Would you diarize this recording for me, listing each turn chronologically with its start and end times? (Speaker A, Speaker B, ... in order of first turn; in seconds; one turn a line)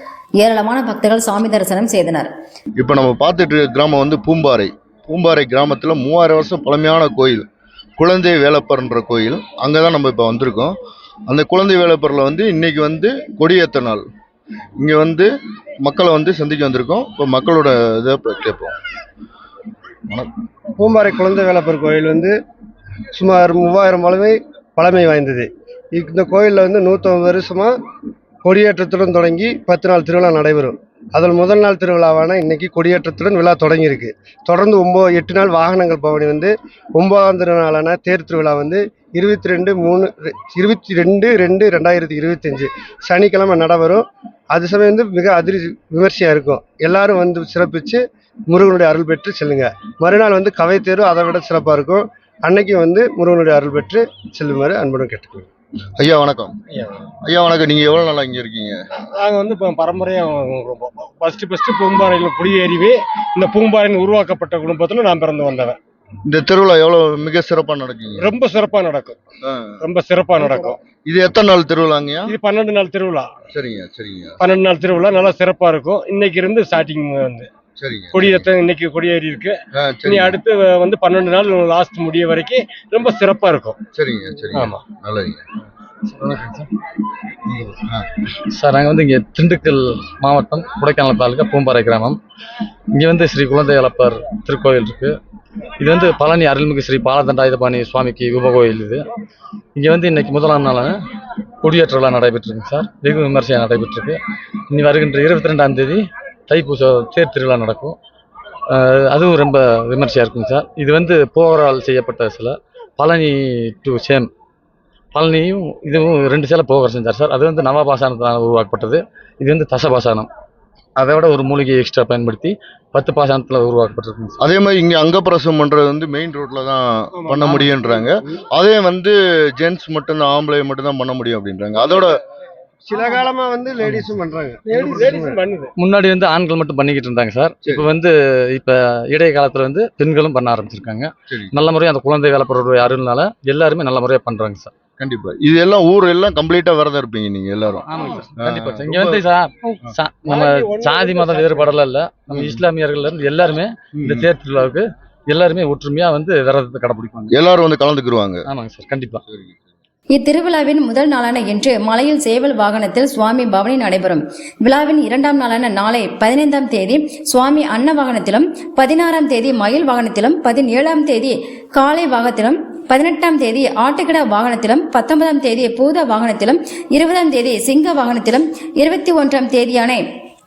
Speaker A: 0.4-2.3
Speaker B: 2.8-7.5
Speaker B: 8.0-10.7
Speaker B: 11.3-14.0
Speaker B: 14.8-15.3
Speaker B: 15.8-18.7
Speaker C: 20.8-22.3
Speaker C: 23.1-27.7
Speaker C: 28.4-55.5
Speaker B: 56.0-56.5
Speaker D: 56.7-57.0
Speaker B: 57.2-58.8
Speaker D: 59.1-65.8
Speaker B: 66.3-68.3
Speaker D: 68.2-69.2
Speaker B: 69.4-69.8
Speaker D: 69.8-70.8
Speaker B: 71.0-72.3
Speaker D: 72.2-73.3
Speaker B: 73.5-74.4
Speaker D: 74.4-77.5
Speaker B: 77.8-78.4
Speaker D: 78.1-83.8
Speaker B: 79.7-80.4
Speaker B: 83.9-85.4
Speaker D: 84.5-84.8
Speaker E: 86.1-86.7
Speaker B: 87.5-88.1
Speaker E: 88.5-92.2
Speaker E: 92.9-95.1
Speaker E: 95.8-99.0
Speaker E: 99.8-101.0
Speaker E: 101.6-104.2
Speaker E: 104.7-108.0
Speaker E: 108.7-114.3
Speaker E: 115.1-120.3
Speaker E: 121.0-124.4
Speaker B: 124.4-132.1
Speaker D: 127.2-127.6
Speaker C: 132.8-135.4
Speaker D: 134.7-135.7
Speaker E: 135.8-144.7
Speaker B: 141.3-141.5
Speaker B: 145.0-147.8
Speaker E: 147.9-157.3
Speaker B: 148.4-149.2
Speaker D: 150.2-151.7
Speaker B: 152.3-152.6
Speaker B: 153.9-154.3
Speaker B: 157.3-158.4
Speaker E: 158.5-159.2
Speaker B: 159.3-159.6
Speaker A: 160.1-180.0